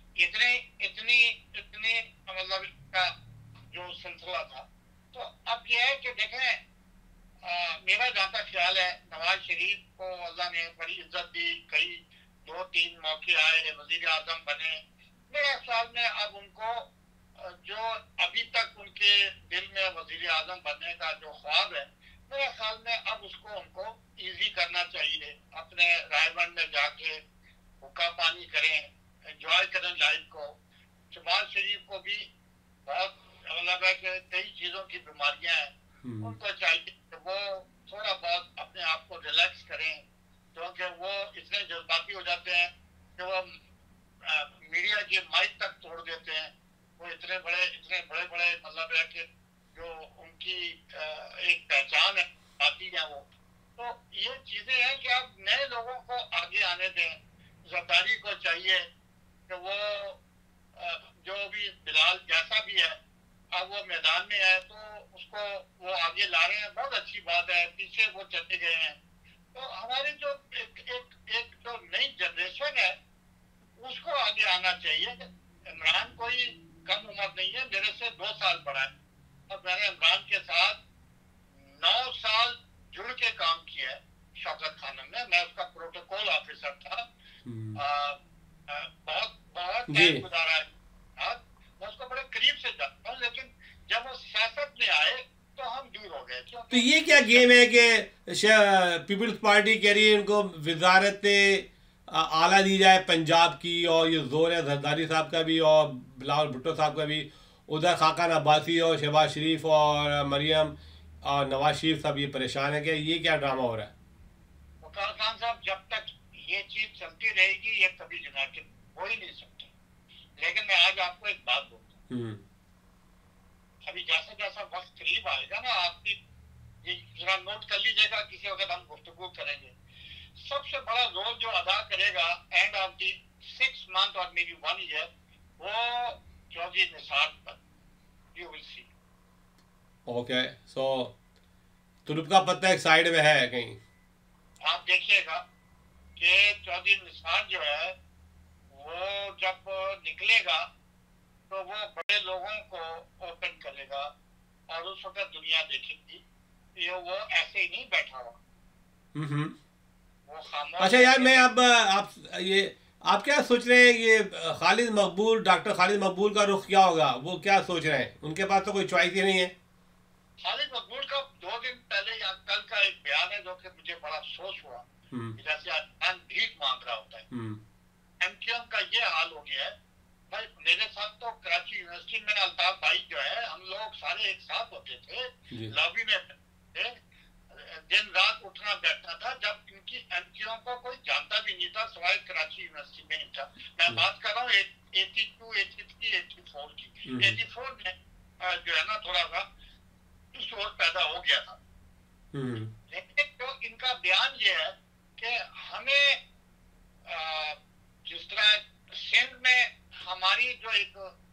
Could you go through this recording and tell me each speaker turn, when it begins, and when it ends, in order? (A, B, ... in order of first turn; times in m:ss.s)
0:00.2-0:03.1 A
0:03.7-0:06.6 A
0:07.4-0:27.2 A
0:27.8-0:30.6 A
0:31.1-0:32.2 A
0:32.8-0:40.0 A
0:36.0-0:36.3 B
0:40.5-0:43.6 A
0:44.2-0:53.2 A
0:53.8-0:58.9 A
0:59.5-1:00.2 A
1:00.8-1:03.0 A
1:03.5-1:09.0 A
1:09.5-1:13.0 A
1:13.8-1:18.9 A
1:19.5-1:20.8 A
1:21.5-1:27.0 A
1:27.4-1:27.8 B
1:27.8-1:37.5 A
1:29.9-1:30.2 B
1:36.7-1:53.9 B
1:54.8-1:59.7 A
2:00.4-2:02.0 A
2:02.1-2:02.4 B
2:03.8-2:06.2 A
2:06.8-2:09.7 A
2:10.4-2:15.1 A
2:15.6-2:17.6 A
2:18.3-2:18.9 A
2:20.0-2:21.1 B
2:22.0-2:23.8 B
2:24.6-2:25.4 A
2:26.2-2:27.9 A
2:28.7-2:30.7 A
2:31.5-2:34.1 A
2:34.7-2:36.2 A
2:36.8-2:38.4 A
2:39.1-2:39.6 B
2:40.3-2:41.4 A
2:40.8-2:49.5 B
2:50.4-2:54.8 A
2:55.1-2:55.4 B
2:55.4-2:57.3 A
2:57.3-2:57.6 B
2:58.2-2:59.7 A
3:00.3-3:07.0 A
3:07.5-3:19.4 A
3:17.0-3:17.4 B
3:20.3-3:21.6 A
3:22.3-3:22.7 B
3:22.9-3:26.2 A
3:27.0-3:31.1 A